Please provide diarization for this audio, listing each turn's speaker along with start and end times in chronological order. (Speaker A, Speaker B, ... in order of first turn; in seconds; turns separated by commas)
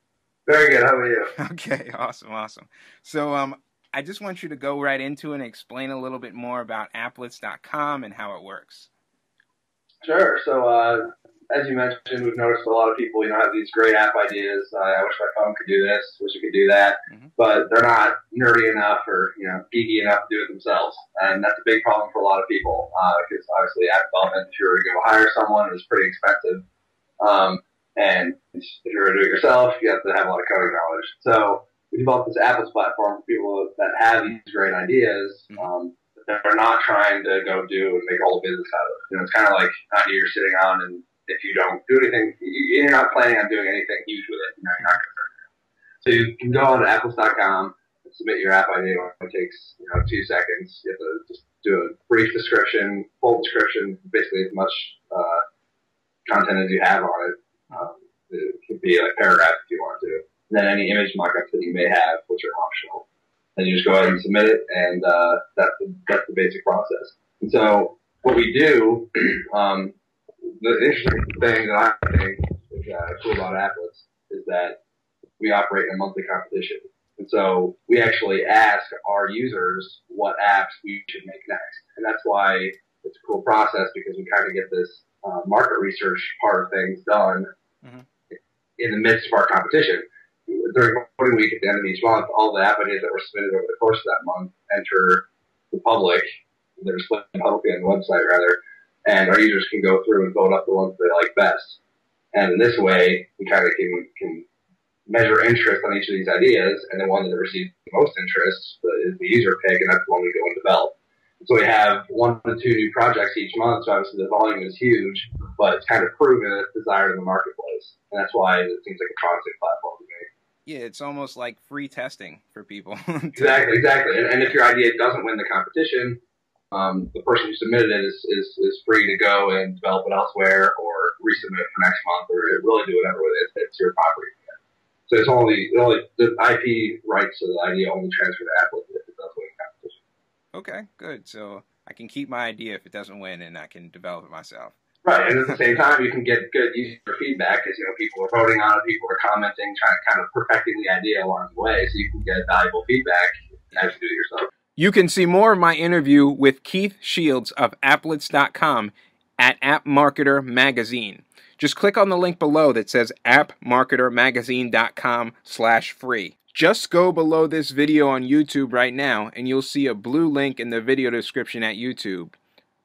Speaker A: 0.5-1.3, Speaker B: 1.4-8.9, Speaker A: 10.0-26.6, Speaker A: 27.2-45.4, Speaker A: 46.0-55.4, Speaker A: 56.2-70.0, Speaker A: 70.6-74.8, Speaker A: 75.4-87.5, Speaker A: 88.8-96.2, Speaker A: 96.8-101.8, Speaker A: 102.3-104.5, Speaker A: 105.1-120.3, Speaker B: 120.7-123.7, Speaker A: 123.3-126.2, Speaker A: 126.7-134.6, Speaker A: 135.1-140.0, Speaker B: 140.5-144.8, Speaker A: 145.0-154.5, Speaker B: 154.8-172.3